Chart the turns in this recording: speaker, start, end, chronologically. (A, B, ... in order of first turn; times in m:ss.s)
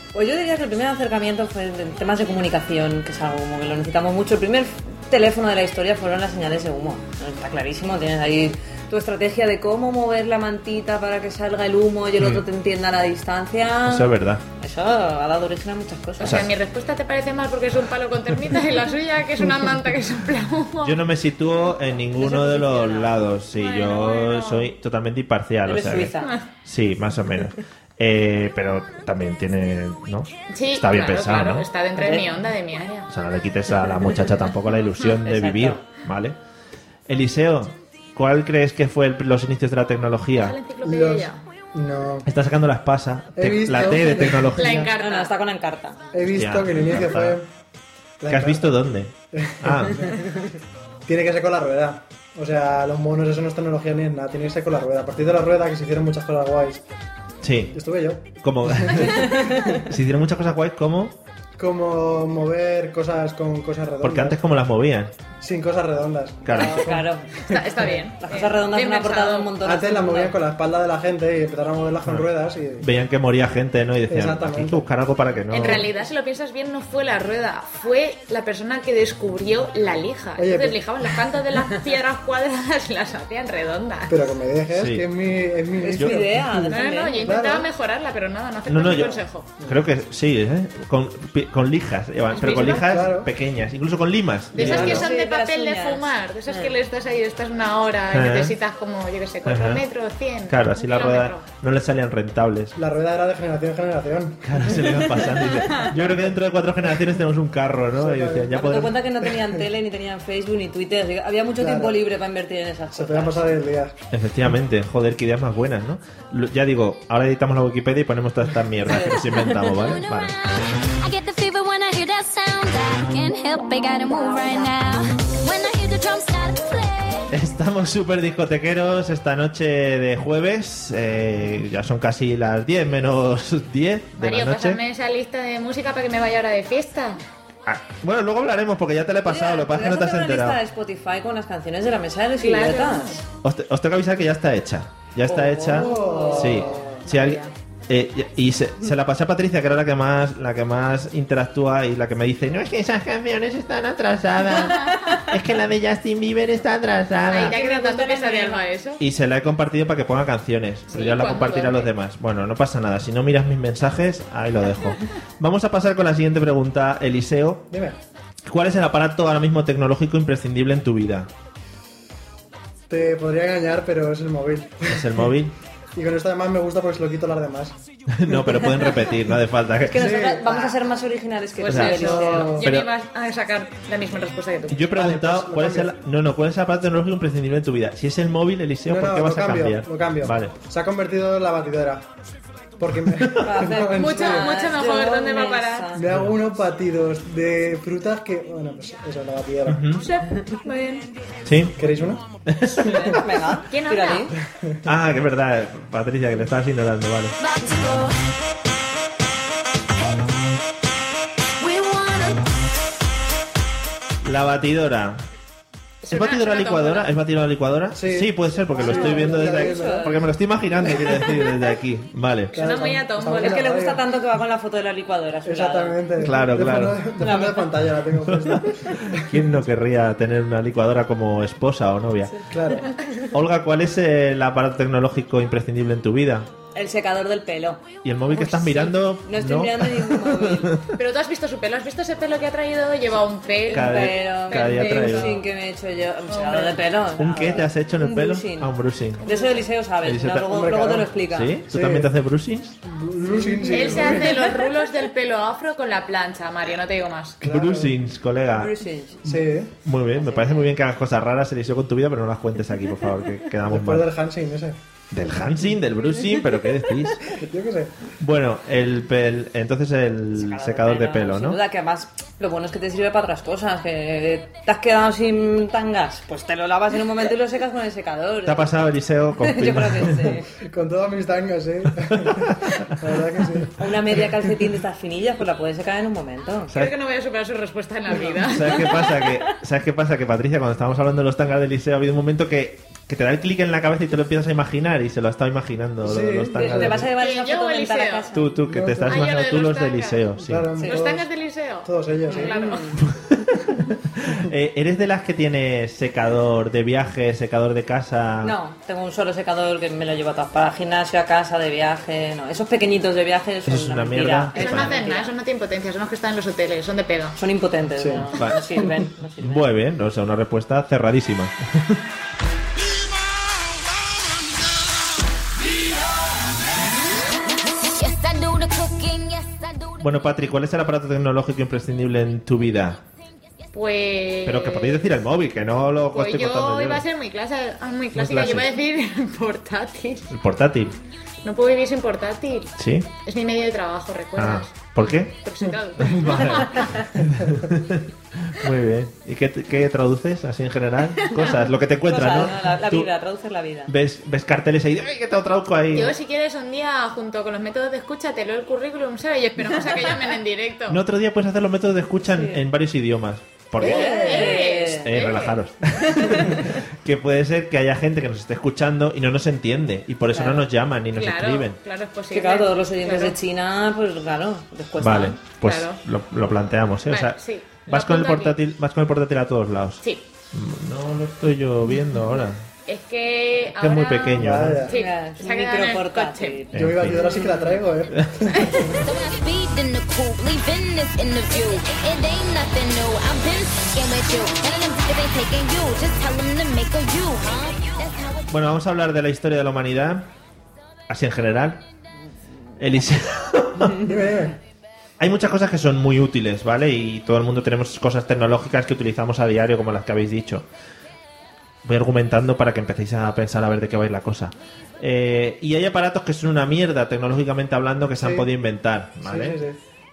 0:00.1-0:16.4 A
0:13.8-0:14.4 B
0:16.2-0:21.0 C
0:16.2-0:16.5 B
0:20.8-0:31.7 B
0:22.2-0:23.3 A
0:23.5-0:24.7 C
0:25.6-0:26.3 A
0:30.5-0:33.1 C
0:32.0-0:32.3 A
0:33.1-0:36.4 B
0:35.2-0:35.8 A
0:37.1-0:40.6 B
0:40.4-0:41.4 C
0:40.8-0:42.3 D
0:42.2-0:44.9 B
0:43.4-0:44.9 D
0:43.9-0:45.3 C
0:45.0-0:46.2 A
0:46.1-0:47.5 D
0:46.3-0:47.4 B
0:48.2-0:48.8 D
0:48.3-0:50.1 B
0:49.3-0:50.4 D
0:51.0-0:56.8 D
0:57.4-0:57.8 B
0:57.7-0:59.1 D
0:58.4-1:01.2 B
1:01.6-1:04.4 D
1:04.0-1:05.1 B
1:05.4-1:07.0 D
1:06.4-1:07.0 B
1:06.5-1:10.4 A
1:07.4-1:09.5 C
1:09.6-1:12.9 D
1:12.8-1:15.9 B
1:14.1-1:14.9 D
1:15.5-1:24.2 C
1:20.4-1:20.8 D
1:24.1-1:27.7 D
1:24.7-1:25.0 B
1:25.8-1:27.4 A
1:26.0-1:26.3 B
1:26.7-1:29.5 C
1:28.6-1:35.1 B
1:32.3-1:33.0 C
1:32.7-1:33.3 D
1:34.5-1:36.7 A
1:34.5-1:41.5 C
1:38.1-1:38.5 B
1:39.4-1:39.8 B
1:40.5-1:42.7 B
1:42.8-1:44.8 D
1:44.4-1:49.0 B
1:47.9-1:48.6 D
1:48.5-1:53.5 A
1:49.2-1:49.6 D
1:51.6-1:52.0 D
1:52.9-1:53.9 D
1:54.1-2:00.3 B
1:58.8-1:59.9 A
1:59.8-2:07.3 E
2:07.3-2:14.8 B
2:14.2-2:17.2 C
2:17.6-2:20.6 B
2:19.2-2:23.2 A
2:22.4-2:23.2 C
2:23.4-2:37.5 B
2:25.2-2:27.0 A
2:25.6-2:26.9 D
2:27.0-2:27.5 C
2:37.3-2:39.0 C
2:37.3-2:38.7 A
2:39.0-2:47.7 B
2:40.9-2:41.9 C
2:47.7-2:48.0 D
2:48.4-2:51.3 B
2:52.9-2:55.3 D
2:54.8-2:55.5 B
2:55.9-2:57.8 D
2:58.1-3:00.1 B
2:59.8-3:02.6 A
2:59.9-3:00.8 D
3:01.6-3:04.9 C
3:01.6-3:02.9 B
3:01.8-3:02.7 D
3:04.7-3:10.5 B
3:04.9-3:05.9 D
3:08.8-3:12.0 D
3:12.8-3:14.6 D
3:13.4-3:16.0 A
3:13.9-3:15.9 C
3:15.9-3:19.8 D
3:16.0-3:16.4 B
3:19.6-3:20.1 B
3:20.0-3:21.1 C
3:21.4-3:21.8 B
3:21.8-3:22.2 D
3:22.5-3:23.2 B
3:22.7-3:24.3 A
3:22.8-3:23.2 D
3:23.7-3:24.3 C
3:24.8-3:27.4 B
3:27.4-3:28.2 E
3:31.6-3:32.5 E
3:34.2-3:35.2 B
3:36.0-3:37.1 C
3:36.1-3:42.6 B
3:37.9-3:40.2 D
3:38.8-3:40.3 A
3:42.5-3:44.0 D
3:42.5-3:43.8 C
3:43.4-3:46.2 A
3:45.4-3:49.4 D
3:46.2-3:47.0 B
3:47.2-3:47.8 A
3:48.3-3:52.4 B
3:52.5-3:52.9 D
3:53.3-3:56.5 B
3:56.7-4:00.8 A
3:58.0-4:00.9 B
4:01.0-4:05.5 C
4:03.7-4:11.6 A
4:03.7-4:05.4 B
4:06.3-4:06.9 C
4:07.2-4:09.2 B
4:09.2-4:09.6 C
4:10.0-4:10.6 B
4:10.5-4:11.1 D
4:11.3-4:12.8 B
4:11.7-4:12.1 D
4:12.8-4:14.5 D
4:13.3-4:14.6 A
4:13.7-4:17.4 C
4:17.4-4:18.0 D
4:17.4-4:18.7 B
4:18.5-4:19.4 A
4:19.2-4:19.7 D
4:19.8-4:24.1 B
4:20.1-4:20.7 A
4:23.6-4:24.8 D
4:25.1-4:27.4 B
4:27.3-4:27.9 D
4:28.2-4:31.6 B
4:30.3-4:38.8 A
4:38.4-4:40.4 B
4:39.4-4:40.5 A
4:40.6-4:43.9 D
4:42.1-4:42.9 B
4:43.8-4:46.7 A
4:46.7-4:49.0 C
4:48.4-4:57.1 B
4:48.6-4:49.5 A
4:56.0-4:57.1 D
4:56.5-4:58.5 A
4:57.1-4:58.3 C
4:58.3-5:00.8 B
4:58.7-4:59.3 D
4:59.0-5:00.3 C
5:00.4-5:01.3 D
5:00.8-5:01.0 A
5:00.8-5:03.0 C
5:01.8-5:02.6 D
5:02.3-5:03.0 A
5:03.0-5:08.5 B
5:08.4-5:15.3 A
5:13.6-5:15.0 B
5:14.5-5:17.4 C
5:17.4-5:19.6 A
5:18.0-5:18.3 D
5:18.3-5:18.7 B
5:19.4-5:22.0 B
5:27.9-5:30.0 E
5:30.0-5:33.0 B
5:33.7-5:35.1 C
5:34.4-5:37.0 B
5:36.1-5:40.3 C
5:38.1-5:38.7 B
5:40.3-5:41.0 B
5:41.4-5:46.9 C
5:42.8-5:43.1 B
5:44.4-5:45.4 B
5:46.0-5:53.1 B
5:51.4-5:53.9 A
5:53.9-5:56.2 B
5:55.9-6:01.0 C
6:00.9-6:11.8 B
6:02.2-6:02.6 A
6:03.8-6:06.7 A
6:03.8-6:05.6 C
6:10.3-6:10.7 A
6:11.1-6:13.4 C
6:12.3-6:15.4 A
6:15.0-6:22.6 B
6:15.6-6:16.0 C
6:17.1-6:18.6 C
6:20.0-6:20.3 C
6:22.9-6:26.7 C
6:23.8-6:24.9 B
6:24.4-6:24.9 D
6:24.9-6:27.8 A
6:26.7-6:27.4 B
6:26.7-6:29.0 D
6:28.1-6:28.5 B
6:29.0-6:38.5 E
6:38.5-6:40.3 B
6:41.1-6:41.8 B
6:42.8-6:44.1 B
6:43.9-6:44.6 D
6:45.2-6:50.6 B
6:51.8-6:59.6 B
6:58.2-6:58.5 D
6:59.2-6:59.8 D